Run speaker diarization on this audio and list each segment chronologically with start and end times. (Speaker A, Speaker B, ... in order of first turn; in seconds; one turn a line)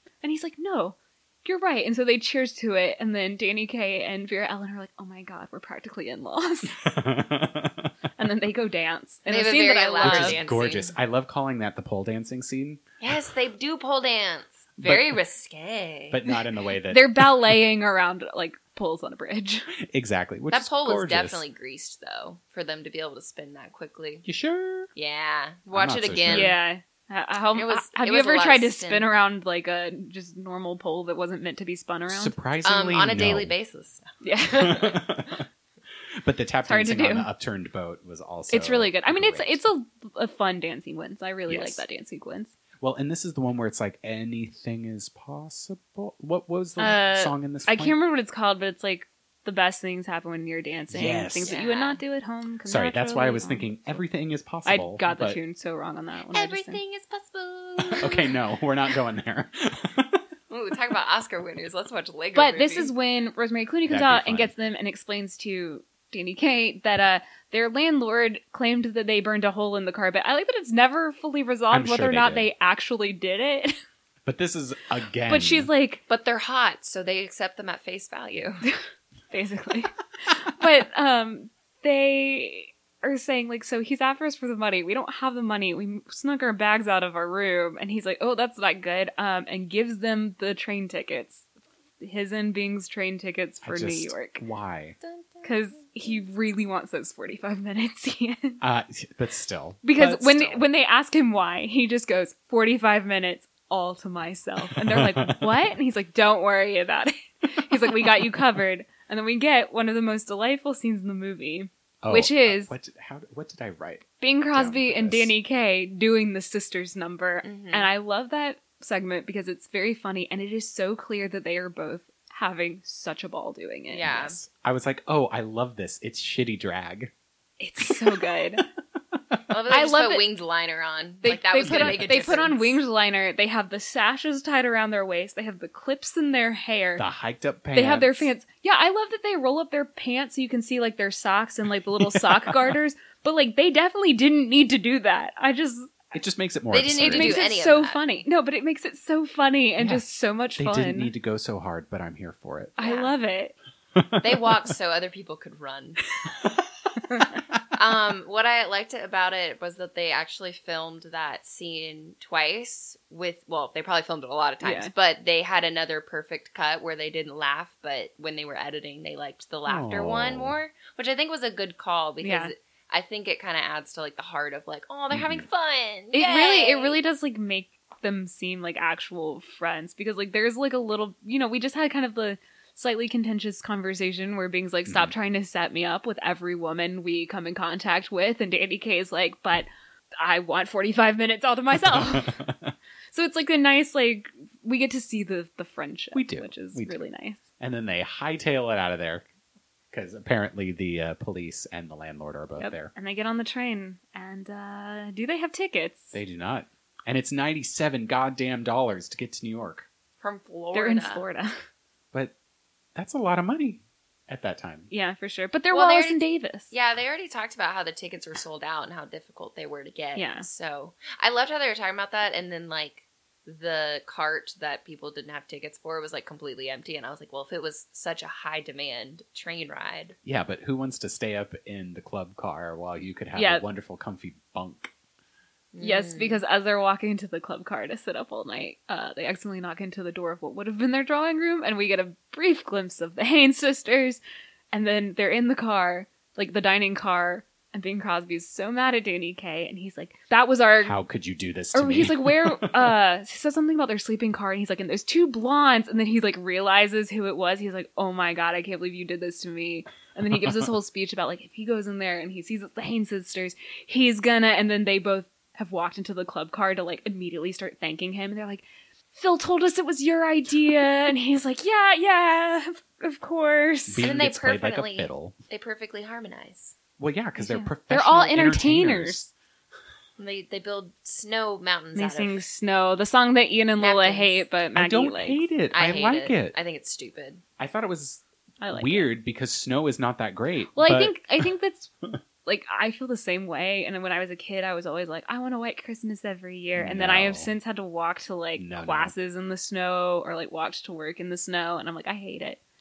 Speaker A: 0.2-6.8
Speaker B: 6.7-7.9
Speaker A: 8.2-10.4
Speaker C: 9.3-10.9
Speaker B: 10.0-12.8
Speaker C: 13.0-16.2
Speaker B: 14.8-15.2
Speaker B: 16.1-17.3
Speaker A: 16.9-19.7
Speaker B: 19.9-21.4
Speaker C: 20.5-24.3
Speaker B: 24.2-24.9
Speaker C: 24.9-26.6
Speaker B: 25.7-26.6
Speaker A: 26.3-32.4
Speaker C: 27.5-29.1
Speaker B: 32.1-33.5
Speaker C: 32.6-35.0
Speaker A: 34.2-35.0
Speaker B: 34.5-35.5
Speaker B: 36.2-39.6
Speaker A: 36.7-37.3
Speaker A: 38.5-42.5
Speaker B: 41.5-41.8
Speaker B: 42.8-48.0
Speaker A: 46.8-54.0
Speaker B: 50.9-51.5
Speaker C: 51.4-52.0
Speaker B: 52.7-55.4
Speaker A: 54.6-56.8
Speaker C: 56.3-58.4
Speaker B: 57.9-60.2
Speaker C: 60.5-62.9
Speaker A: 62.4-73.8
Speaker B: 63.9-64.5
Speaker B: 71.7-72.5
Speaker B: 74.3-75.7
Speaker A: 75.3-76.0
Speaker C: 76.1-78.7
Speaker A: 79.3-91.4
Speaker A: 92.0-94.4
Speaker B: 93.6-95.0
Speaker C: 95.0-96.2
Speaker A: 95.4-98.6
Speaker B: 98.6-100.7
Speaker A: 99.8-112.7
Speaker B: 104.8-105.5
Speaker B: 112.0-115.3
Speaker A: 114.2-124.1
Speaker C: 117.4-117.9
Speaker C: 123.9-124.4
Speaker B: 124.0-127.1
Speaker A: 127.6-128.7
Speaker C: 129.5-132.8
Speaker A: 129.7-130.2
Speaker A: 131.2-137.1
Speaker B: 131.6-132.3
Speaker B: 137.0-138.3
Speaker A: 137.7-146.0
Speaker B: 142.0-142.8
Speaker B: 146.1-147.4
Speaker C: 146.7-148.0
Speaker A: 147.0-151.1
Speaker B: 150.6-152.8
Speaker A: 152.8-153.6
Speaker C: 152.8-153.1
Speaker B: 154.0-154.5
Speaker C: 154.2-156.0
Speaker C: 157.7-177.0
Speaker A: 164.6-164.9
Speaker B: 169.7-170.6
Speaker A: 172.2-172.5
Speaker B: 175.1-175.4
Speaker A: 176.1-189.7
Speaker B: 184.9-185.1
Speaker A: 190.2-192.4
Speaker B: 191.8-192.7
Speaker A: 193.1-197.4
Speaker B: 196.1-197.0
Speaker B: 197.6-199.3
Speaker B: 199.9-202.9
Speaker A: 202.6-206.2
Speaker B: 206.1-209.9
Speaker C: 210.2-211.2
Speaker A: 210.7-211.6
Speaker B: 212.9-214.9
Speaker A: 214.9-216.7
Speaker C: 215.7-230.2
Speaker A: 220.2-220.5
Speaker B: 230.2-234.9
Speaker A: 233.3-233.7
Speaker C: 235.7-236.4
Speaker A: 235.8-244.2
Speaker A: 244.7-251.0
Speaker B: 250.8-252.9
Speaker A: 251.7-268.6
Speaker A: 269.1-274.1
Speaker B: 273.9-275.4
Speaker C: 274.0-276.8
Speaker B: 277.0-279.3
Speaker A: 277.4-279.2
Speaker C: 280.2-282.4
Speaker A: 281.9-285.4
Speaker C: 283.8-284.4
Speaker B: 284.7-286.6
Speaker C: 285.7-287.4
Speaker B: 287.6-291.2
Speaker A: 288.6-289.1
Speaker A: 290.8-291.9
Speaker A: 292.4-302.6
Speaker B: 296.8-297.5
Speaker B: 298.6-299.1